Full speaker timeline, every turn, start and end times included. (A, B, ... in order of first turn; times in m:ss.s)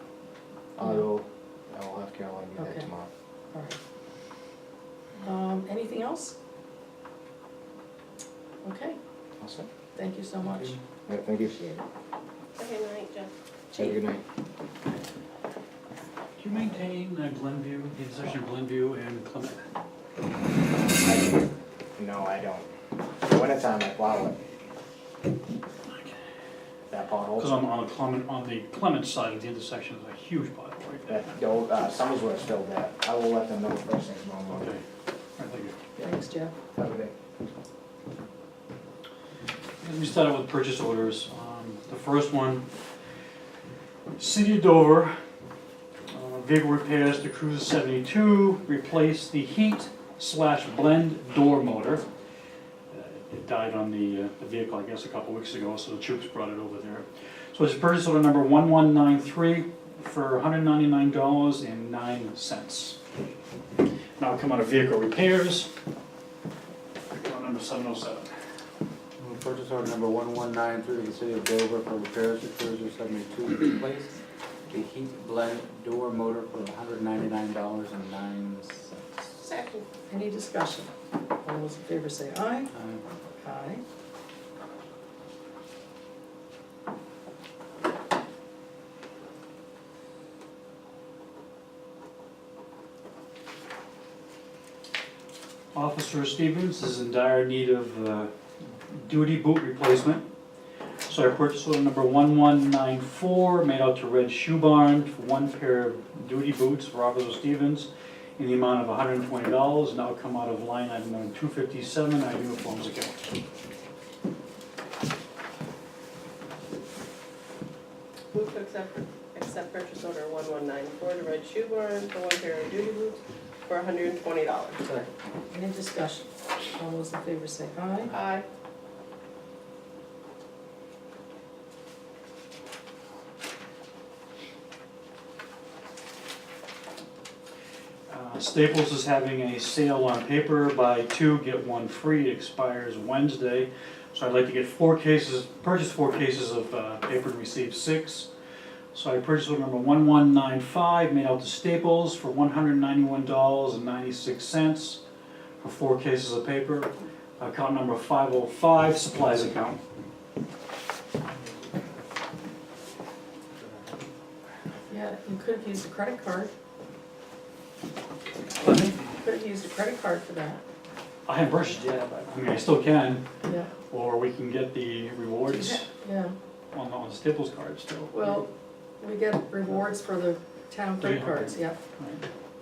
0:00.8-0:03.1 A
0:02.6-0:02.9 B
0:03.5-0:03.8 B
0:05.2-0:06.4 B
0:08.6-0:09.0 B
0:09.4-0:09.7 A
0:10.0-0:10.8 B
0:11.1-0:11.6 A
0:11.5-0:11.8 B
0:12.6-0:13.3 C
0:13.8-0:14.2 A
0:16.4-0:19.6 D
0:20.9-0:22.7 A
0:23.2-0:24.4 A
0:26.9-0:27.5 A
0:27.4-0:31.3 D
0:31.1-0:34.7 A
0:34.5-0:34.8 D
0:35.4-0:35.8 D
0:36.0-0:36.5 B
0:36.7-0:37.1 A
0:39.8-0:42.6 D
0:44.2-0:45.2 D
0:46.1-0:52.0 D
0:52.9-1:03.0 D
1:04.2-1:05.7 D
1:07.1-1:08.3 D
1:09.2-1:14.2 E
1:14.7-1:19.3 E
1:19.4-1:19.9 C
1:20.1-1:20.9 B
1:21.4-1:22.7 B
1:22.7-1:23.0 E
1:23.4-1:23.8 B
1:35.7-1:38.3 D
1:38.8-1:40.2 D
1:41.1-1:53.2 D
1:58.3-2:04.8 C
2:04.8-2:05.1 E
2:05.5-2:08.1 B
2:08.1-2:08.4 C
2:18.1-2:28.3 D
2:28.9-2:35.0 D
2:35.6-2:39.8 D
2:44.9-2:46.5 B
2:48.6-2:49.0 D
2:49.2-2:50.6 B
2:51.3-2:53.2 D
2:53.5-2:53.7 B
2:53.9-2:55.9 D
2:55.5-2:56.3 B
2:56.7-2:58.3 D
2:58.1-2:58.5 B
2:59.0-3:01.8 B
3:01.0-3:02.2 D